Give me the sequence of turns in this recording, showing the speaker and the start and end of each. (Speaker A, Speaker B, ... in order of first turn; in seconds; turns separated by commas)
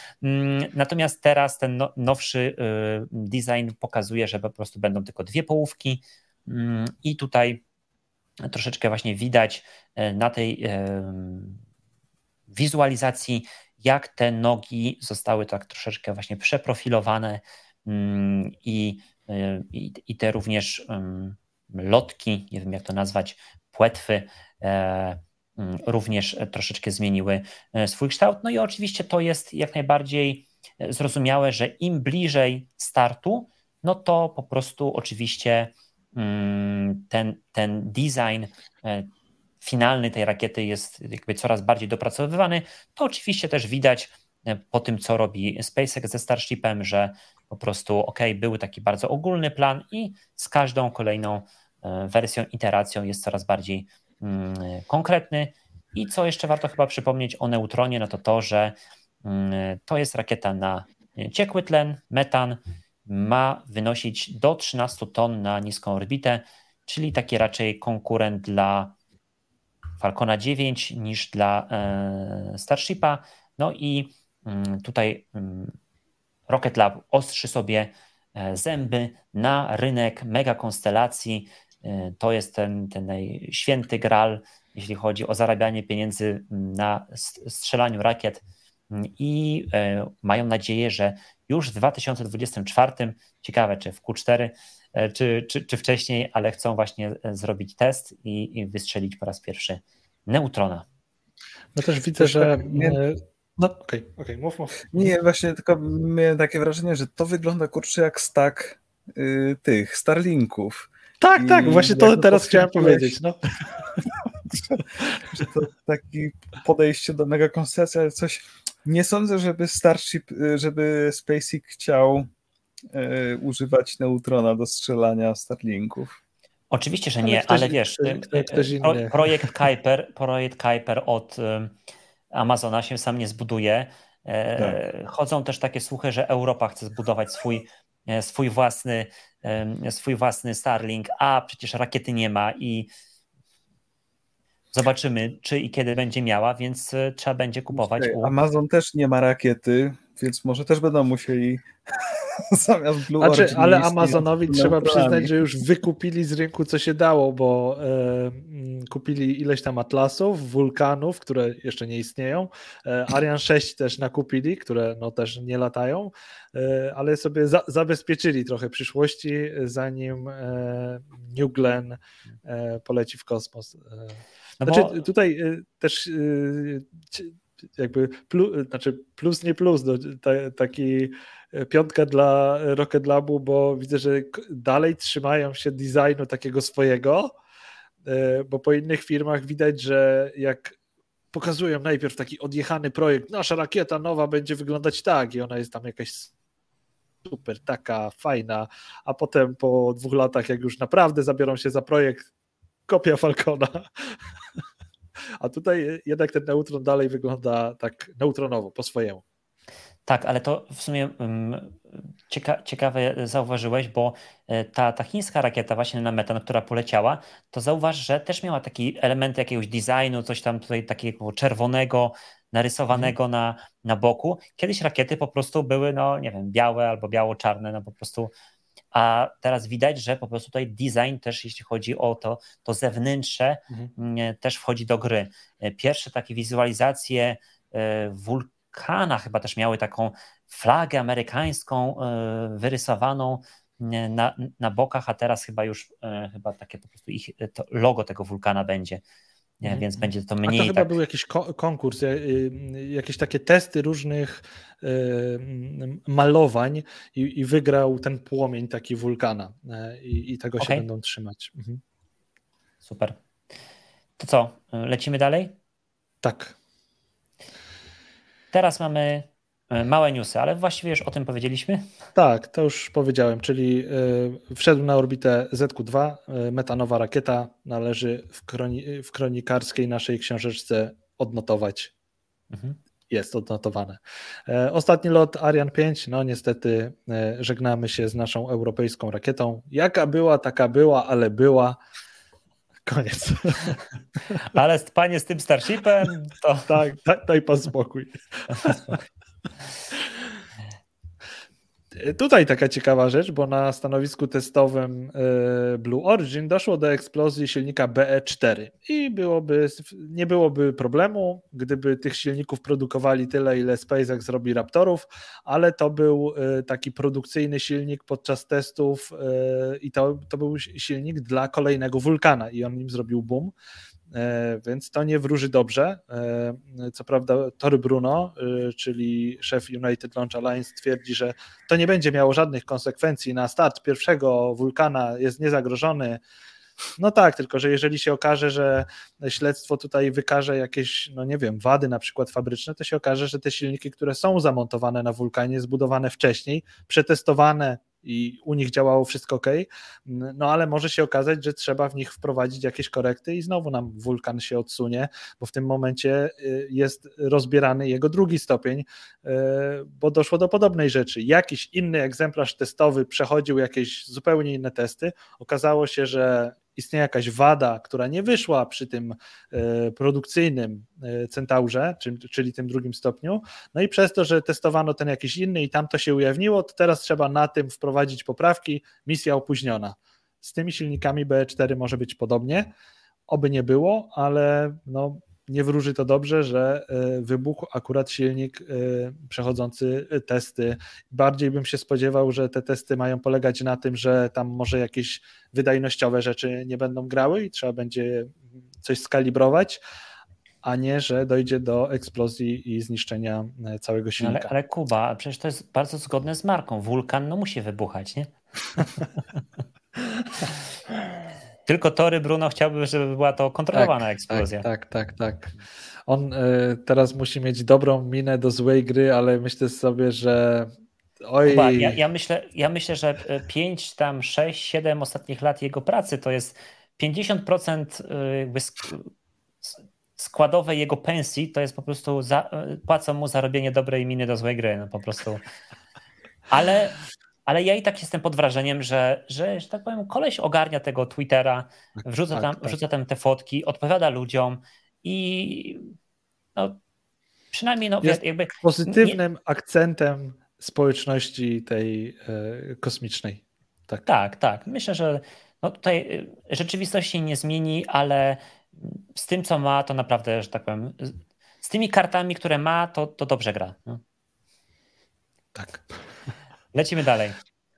Speaker A: 0.2-7.6, Speaker A: 8.4-11.6, Speaker A: 12.5-39.1, Speaker A: 39.6-69.0, Speaker A: 70.0-75.7, Speaker A: 76.5-100.8, Speaker B: 101.8-104.9, Speaker C: 102.2-103.0, Speaker C: 104.9-113.2, Speaker B: 111.2-113.4, Speaker C: 114.5-122.3, Speaker C: 122.9-126.2, Speaker A: 126.7-131.7, Speaker B: 127.2-129.6, Speaker A: 132.3-142.9, Speaker A: 144.7-148.3, Speaker C: 147.7-155.3, Speaker B: 153.2-187.3, Speaker A: 174.6-174.9, Speaker B: 188.1-190.8, Speaker B: 191.3-196.3, Speaker B: 197.2-202.3, Speaker B: 202.9-204.2, Speaker B: 205.4-209.2, Speaker A: 210.1-228.3, Speaker A: 228.9-249.0, Speaker A: 249.6-250.9, Speaker B: 249.6-261.8, Speaker A: 260.6-260.8, Speaker A: 262.8-263.2, Speaker A: 264.2-265.6, Speaker B: 266.2-266.6, Speaker A: 268.5-271.9, Speaker B: 272.1-281.9, Speaker B: 283.1-291.8, Speaker B: 292.9-293.8, Speaker A: 294.4-296.8, Speaker B: 296.7-299.0, Speaker B: 301.9-323.5, Speaker B: 324.1-336.2, Speaker B: 337.0-382.7, Speaker B: 383.3-399.8, Speaker B: 400.6-404.5, Speaker A: 404.2-408.3, Speaker A: 411.6-414.6, Speaker B: 413.7-415.5, Speaker B: 416.1-420.7, Speaker B: 421.3-422.0, Speaker A: 421.4-429.1, Speaker A: 429.6-435.4, Speaker A: 436.5-445.9, Speaker B: 442.0-442.7, Speaker A: 447.5-449.2, Speaker B: 448.0-454.1, Speaker A: 454.1-464.0, Speaker B: 465.6-465.8, Speaker A: 466.7-467.4